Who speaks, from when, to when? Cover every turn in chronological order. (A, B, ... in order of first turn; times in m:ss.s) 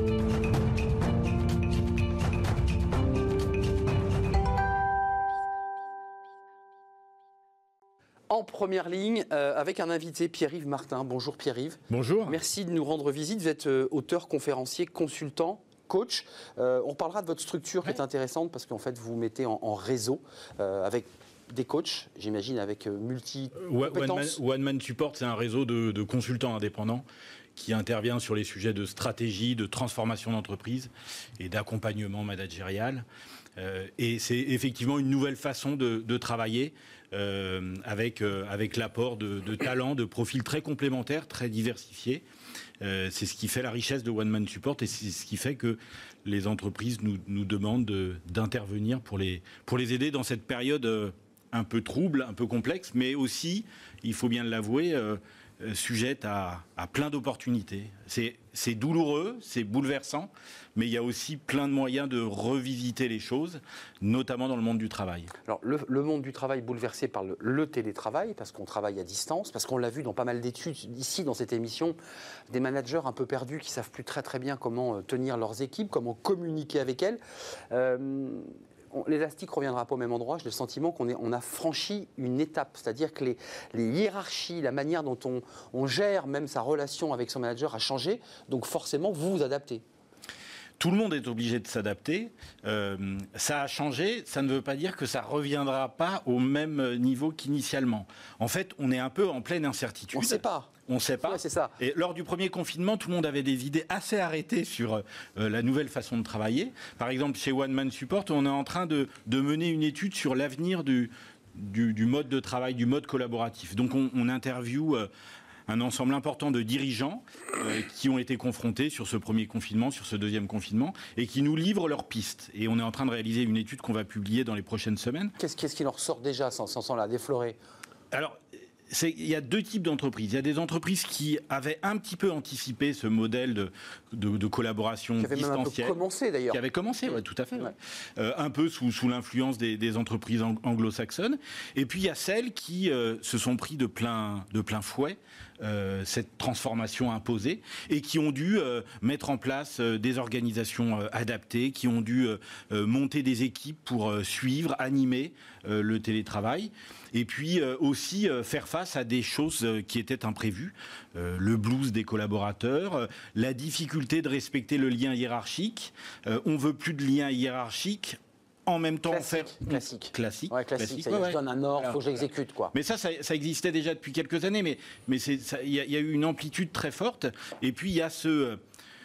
0:08.3-0:24.4 A
0:11.9-0:12.4 B
0:23.6-0:27.0 B
0:27.6-0:33.0 B
0:33.6-0:42.2 B
0:42.8-1:05.3 B
1:05.4-1:12.0 A
1:12.5-1:17.2 A
1:17.7-1:29.8 A
1:30.8-1:55.1 B
1:40.1-1:40.7 A
1:41.2-1:41.7 A
1:55.7-2:05.3 B
2:05.4-2:07.6 A
2:08.1-2:08.4 B
2:08.9-2:16.0 B
2:15.2-2:17.7 A
2:16.5-2:52.0 B
2:49.1-2:52.7 A
2:52.7-2:58.6 B